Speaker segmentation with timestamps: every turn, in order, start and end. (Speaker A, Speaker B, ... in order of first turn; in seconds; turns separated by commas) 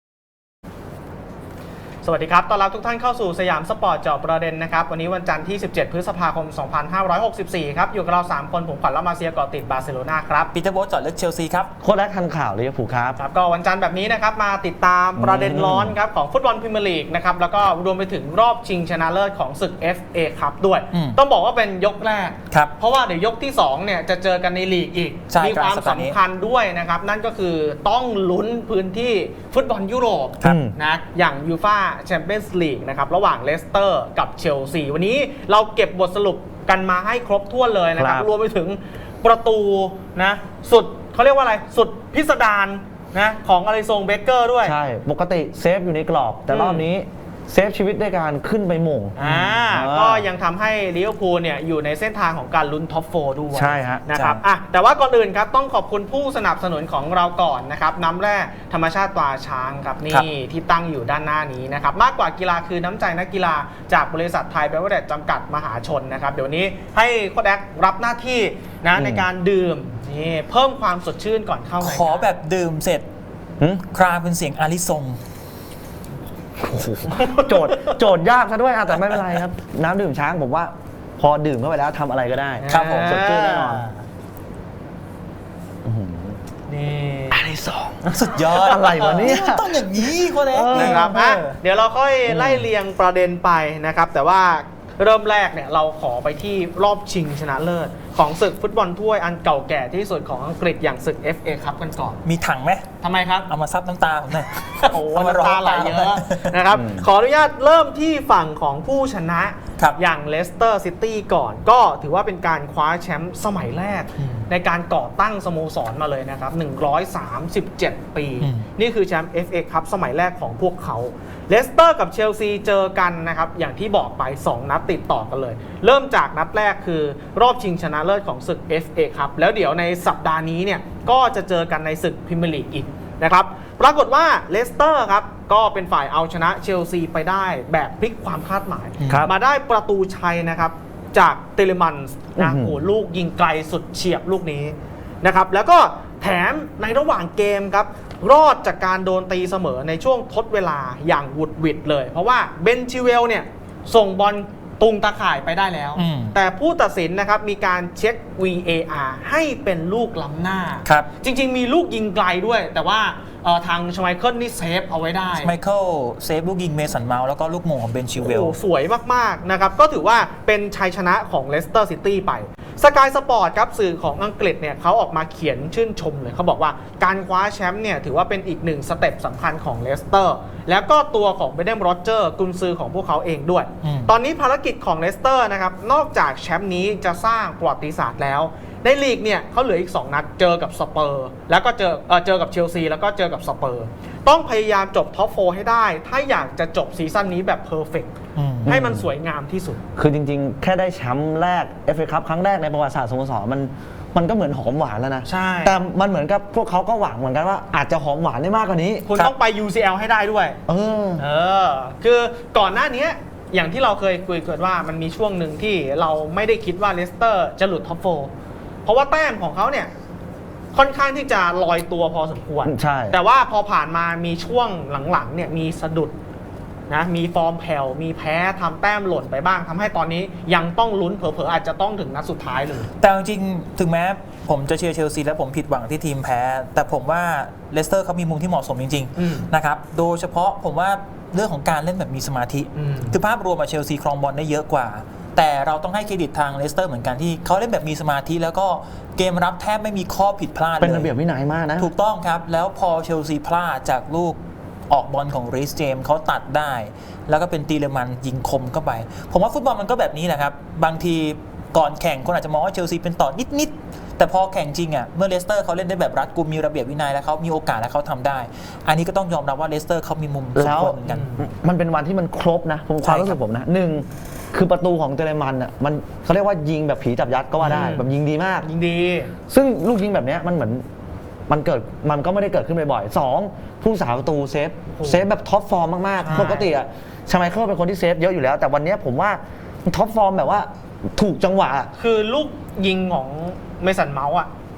Speaker A: 2.0-10.5, Speaker B: 10.5-11.7, Speaker C: 11.8-13.2, Speaker A: 13.2-44.7, Speaker C: 15.2-15.9, Speaker B: 20.9-21.2, Speaker B: 25.3-26.2, Speaker C: 30.4-30.8, Speaker C: 38.0-38.3, Speaker C: 44.6-50.2, Speaker A: 46.5-46.8, Speaker A: 49.2-72.3, Speaker C: 53.5-54.0, Speaker B: 54.1-54.4, Speaker C: 68.9-69.2, Speaker B: 71.8-73.0, Speaker B: 73.8-75.2, Speaker C: 76.6-83.9, Speaker A: 77.1-78.0, Speaker A: 82.6-84.0, Speaker B: 82.7-83.2, Speaker C: 85.8-86.4, Speaker A: 86.7-87.5, Speaker C: 87.3-89.8, Speaker A: 88.0-89.3, Speaker B: 88.1-91.6, Speaker C: 90.5-91.4, Speaker A: 90.7-102.2, Speaker C: 92.2-92.7, Speaker B: 102.2-102.8, Speaker A: 103.0-103.5, Speaker B: 103.5-106.6, Speaker A: 104.6-165.5, Speaker C: 106.7-107.0, Speaker B: 114.2-114.5, Speaker B: 118.4-118.7, Speaker B: 139.0-139.3, Speaker C: 142.4-142.8, Speaker B: 155.9-156.4, Speaker B: 165.3-168.5, Speaker A: 168.2-198.1, Speaker B: 183.8-184.1, Speaker B: 198.3-198.7, Speaker C: 198.7-199.1, Speaker A: 198.7-199.8, Speaker C: 199.9-209.1, Speaker A: 205.2-205.8, Speaker A: 209.1-210.6, Speaker C: 210.7-211.2, Speaker A: 211.2-218.3, Speaker A: 218.8-219.9, Speaker A: 220.7-226.1, Speaker C: 222.6-223.2, Speaker A: 226.9-232.9, Speaker B: 233.0-251.1, Speaker A: 239.2-239.5, Speaker A: 242.7-243.2, Speaker C: 250.8-251.9, Speaker B: 251.8-254.4, Speaker B: 254.9-271.2, Speaker C: 270.5-278.7, Speaker A: 271.0-271.5, Speaker B: 273.0-273.4, Speaker A: 277.6-278.1, Speaker A: 278.6-279.3, Speaker C: 279.5-280.8, Speaker C: 281.5-291.9, Speaker A: 284.9-285.2, Speaker A: 286.2-286.7, Speaker A: 291.9-294.5